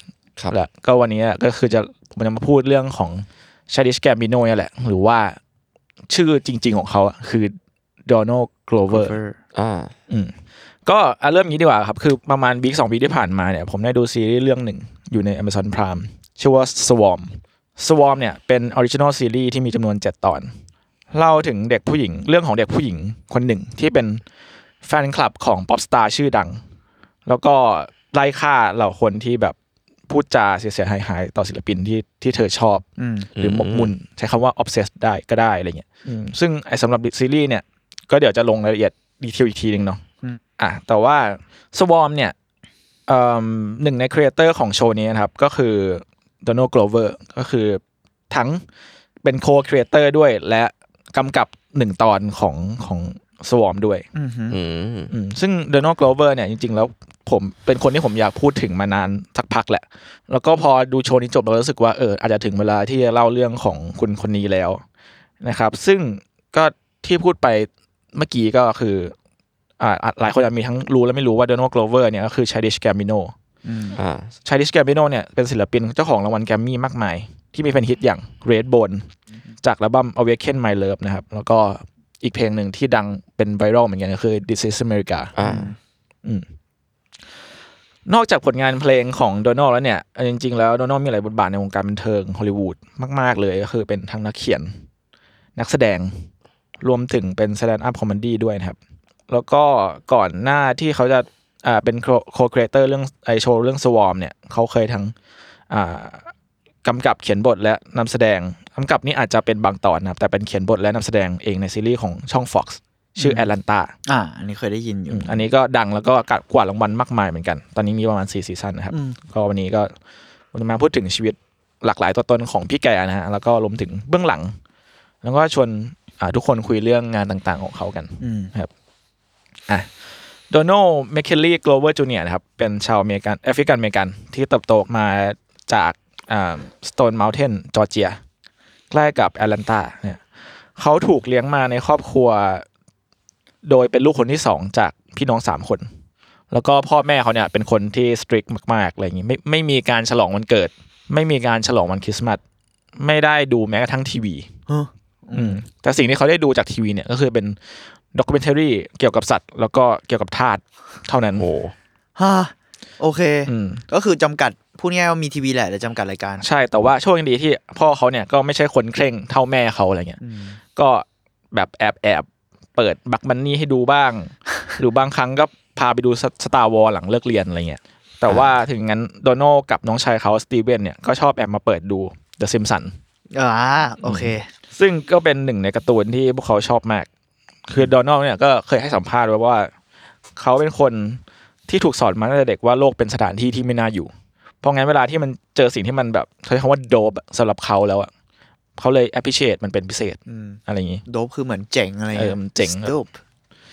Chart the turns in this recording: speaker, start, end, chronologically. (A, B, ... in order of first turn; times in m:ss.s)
0:00.5-0:05.4 A
0:06.1-0:07.5 A
0:08.1-0:09.2 A
0:08.9-0:09.4 B
0:09.5-0:09.9 C
0:10.8-0:20.5 A
0:21.1-0:24.2 A
0:24.8-0:26.6 A
0:27.2-0:29.6 A
0:30.1-0:32.8 A
0:33.0-0:33.3 B
0:33.3-0:33.9 C
0:33.4-0:40.0 A
0:40.6-0:42.3 A
0:43.1-0:48.6 A
0:49.2-0:54.0 A
0:54.1-0:54.6 B
0:54.5-0:55.1 C
0:55.1-1:04.8 A
1:05.4-1:09.1 A
1:09.8-1:13.3 A
1:13.6-1:14.0 B
1:13.9-1:14.3 C
1:14.4-1:19.1 A
1:19.6-1:25.3 A
1:25.4-1:25.7 C
1:25.4-1:25.8 B
1:28.1-1:34.7 A
1:35.6-1:36.2 A
1:36.8-1:38.8 A
1:39.3-1:45.1 A
1:45.7-1:46.3 A
1:46.8-1:53.9 A
1:53.2-1:53.5 B
1:54.0-1:55.4 B
1:55.1-1:59.9 A
1:58.9-1:59.2 B
2:00.5-2:04.5 A
2:05.2-2:08.7 A
2:08.2-2:08.5 B
2:10.5-2:18.2 A
2:18.9-2:20.2 A
2:20.8-2:22.6 A
2:23.6-2:25.9 A
2:26.5-2:32.4 A
2:33.0-2:34.5 A
2:34.7-2:35.6 B
2:35.3-2:37.6 A
2:38.1-2:41.4 A
2:41.3-2:41.7 C
2:42.2-2:46.4 B
2:43.5-2:43.8 A
2:46.4-2:50.2 A
2:50.2-2:50.6 B
2:50.8-3:02.9 A
3:03.3-3:04.5 B
3:04.0-3:07.1 A
3:07.7-3:09.7 A
3:10.4-3:14.1 A
3:14.6-3:18.1 A
3:18.8-3:21.0 A
3:20.3-3:23.1 B
3:22.1-3:22.9 A